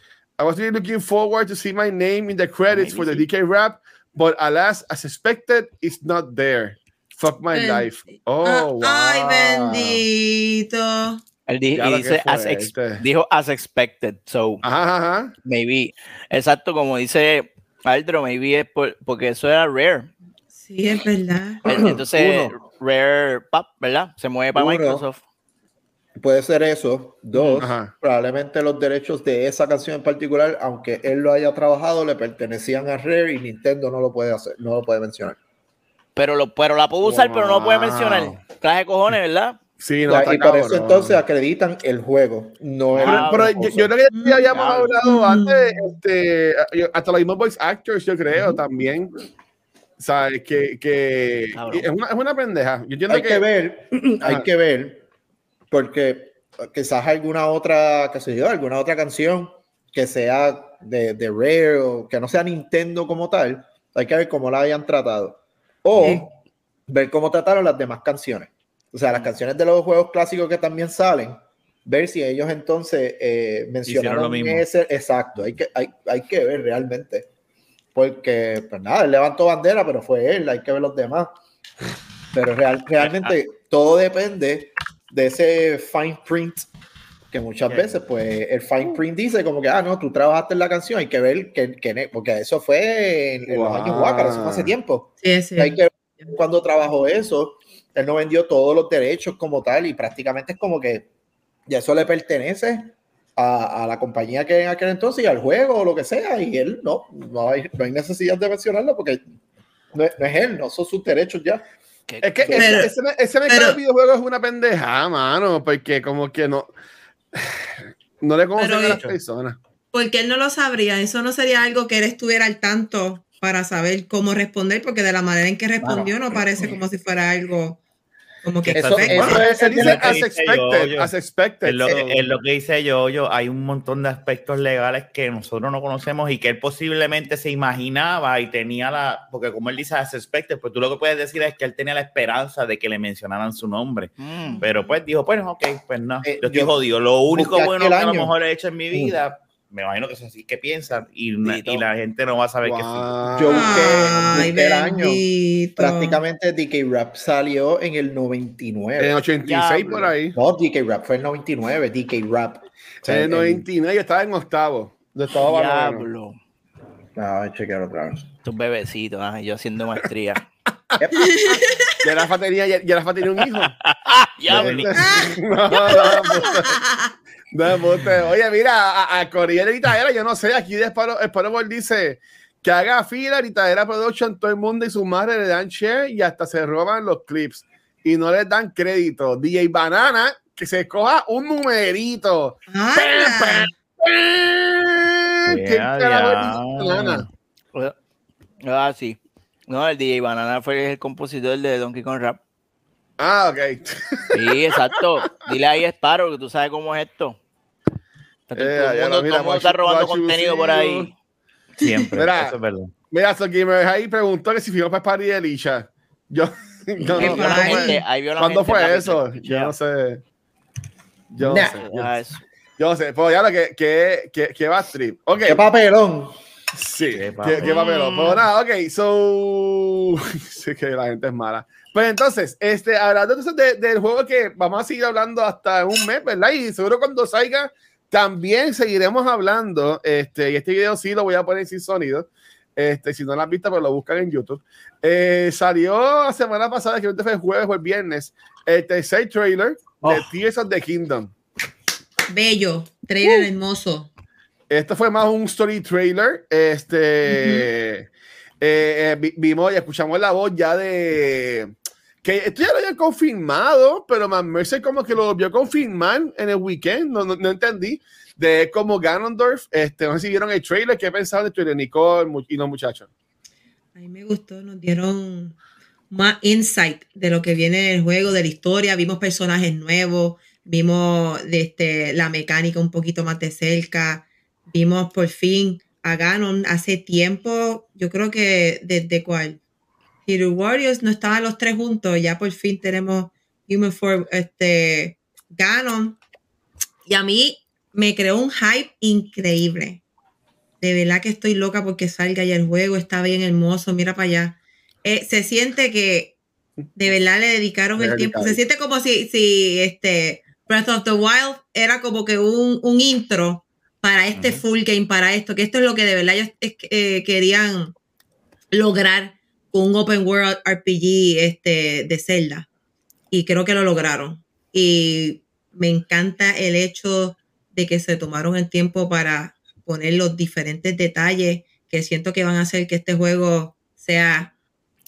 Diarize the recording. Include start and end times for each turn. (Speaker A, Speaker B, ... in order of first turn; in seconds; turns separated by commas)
Speaker A: 0.4-10.1, Speaker B: 2.7-3.2, Speaker C: 7.5-11.2, Speaker B: 11.5-14.6, Speaker A: 11.8-13.0, Speaker A: 14.6-15.3, Speaker B: 15.4-20.1, Speaker C: 20.6-21.6, Speaker B: 21.6-25.2, Speaker D: 21.7-22.6, Speaker D: 24.6-25.1, Speaker D: 26.2-35.4, Speaker B: 27.3-27.6, Speaker A: 27.6-27.9, Speaker B: 36.2-39.6, Speaker A: 37.0-38.4, Speaker A: 39.8-41.2, Speaker D: 40.1-43.9, Speaker B: 42.9-43.5, Speaker A: 43.0-49.1, Speaker C: 44.1-44.5, Speaker B: 44.5-44.9, Speaker C: 45.0-46.0, Speaker D: 48.3-48.6, Speaker A: 50.0-53.5, Speaker B: 51.5-51.9, Speaker D: 53.1-55.0, Speaker D: 55.7-66.3, Speaker C: 66.0-66.2, Speaker D: 66.9-77.3, Speaker E: 73.8-74.7, Speaker D: 78.0-81.3, Speaker D: 82.3-86.7, Speaker E: 83.0-83.4, Speaker D: 87.3-101.1, Speaker E: 87.7-87.9, Speaker A: 93.5-94.7, Speaker C: 95.2-95.8, Speaker D: 101.7-109.2, Speaker D: 109.9-111.7, Speaker B: 112.1-112.9, Speaker A: 112.2-116.7, Speaker D: 112.4-112.8, Speaker C: 112.5-112.9, Speaker C: 113.5-113.8, Speaker A: 118.2-119.6, Speaker C: 118.6-119.1, Speaker C: 119.9-127.8, Speaker C: 128.4-129.7, Speaker E: 128.6-131.1, Speaker D: 128.7-130.2, Speaker A: 129.2-132.3, Speaker E: 131.6-153.2, Speaker B: 144.2-144.6, Speaker D: 146.2-146.8, Speaker D: 147.3-148.3, Speaker D: 148.9-149.2, Speaker B: 151.4-151.8, Speaker A: 152.6-154.2, Speaker D: 153.3-155.2, Speaker C: 153.5-156.2, Speaker D: 155.8-159.2, Speaker A: 159.0-160.4, Speaker B: 159.4-160.1, Speaker D: 160.3-163.7, Speaker A: 163.1-166.1, Speaker B: 165.4-166.4, Speaker D: 167.2-168.2, Speaker B: 168.4-170.4, Speaker D: 171.0-171.3, Speaker C: 171.1-172.0, Speaker A: 172.0-173.8, Speaker B: 174.1-174.8, Speaker E: 174.4-175.2, Speaker A: 174.5-176.8, Speaker C: 174.9-177.1, Speaker A: 177.5-197.3, Speaker C: 192.7-193.7, Speaker E: 195.5-197.3, Speaker B: 198.6-202.4, Speaker A: 203.2-204.8, Speaker B: 204.3-207.4, Speaker B: 208.5-211.1, Speaker A: 208.6-211.1, Speaker C: 211.8-212.1, Speaker E: 211.8-212.9, Speaker A: 212.2-212.6, Speaker A: 213.1-220.2, Speaker B: 217.1-219.7, Speaker C: 217.2-218.0, Speaker A: 221.3-221.9, Speaker D: 221.4-222.1, Speaker B: 221.9-222.4, Speaker A: 222.8-225.6, Speaker D: 225.4-226.3, Speaker A: 226.7-251.3, Speaker E: 227.1-227.7, Speaker B: 227.6-228.5, Speaker B: 250.0-250.3, Speaker C: 252.3-254.1, Speaker A: 253.2-253.5, Speaker A: 254.7-258.1, Speaker C: 257.3-257.7, Speaker A: 258.6-261.7, Speaker A: 262.2-273.1, Speaker C: 274.0-275.6, Speaker C: 276.1-289.6, Speaker C: 290.3-296.2, Speaker C: 297.1-300.0, Speaker C: 300.8-306.4, Speaker A: 306.9-307.1, Speaker C: 307.0-317.9, Speaker A: 308.0-308.6, Speaker E: 314.4-314.6, Speaker C: 318.7-322.7, Speaker C: 323.3-334.5